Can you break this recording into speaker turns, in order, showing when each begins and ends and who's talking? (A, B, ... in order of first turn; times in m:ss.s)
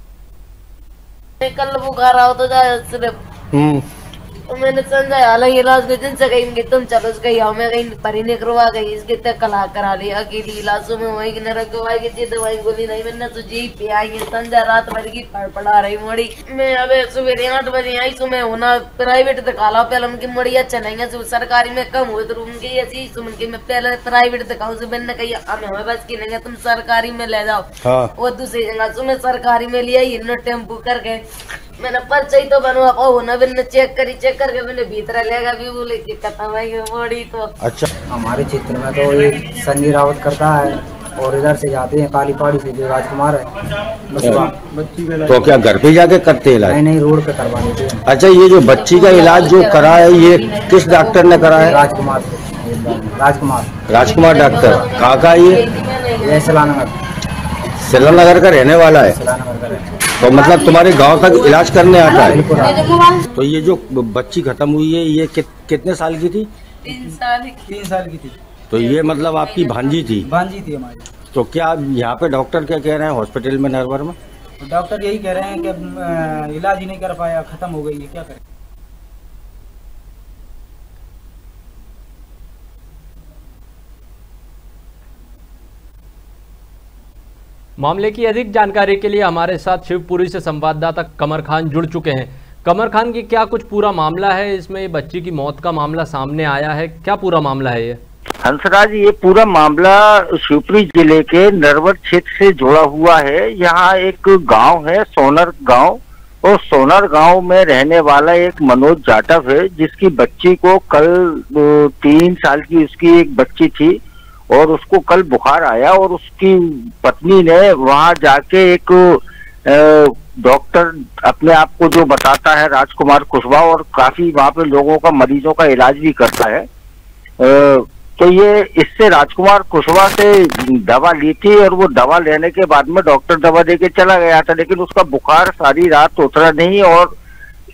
0:01.4-0:03.1 A
0:03.5-0:03.8 B
0:04.5-0:31.2 A
0:27.8-0:28.1 B
0:31.8-0:37.5 A
0:37.6-0:37.9 B
0:38.1-0:43.5 C
0:44.1-0:45.4 C
0:44.2-0:44.5 B
0:45.2-0:46.8 B
0:46.6-0:48.0 C
0:48.0-0:51.8 B
0:48.6-0:51.9 A
0:51.6-0:53.7 C
0:53.9-0:55.6 B
0:53.9-0:56.7 A
0:56.2-0:56.9 C
0:57.8-0:59.2 B
0:59.0-0:59.9 C
1:00.2-1:02.7 B
1:00.2-1:03.4 A
1:02.1-1:02.9 C
1:03.3-1:06.5 B
1:06.8-1:07.8 A
1:07.7-1:08.3 C
1:08.7-1:10.3 B
1:08.7-1:10.2 A
1:10.3-1:11.0 C
1:11.3-1:14.2 B
1:14.7-1:15.8 C
1:16.4-1:18.2 C
1:27.8-1:38.0 D
1:38.4-1:54.0 E
1:54.5-2:06.6 E
2:07.4-2:17.1 E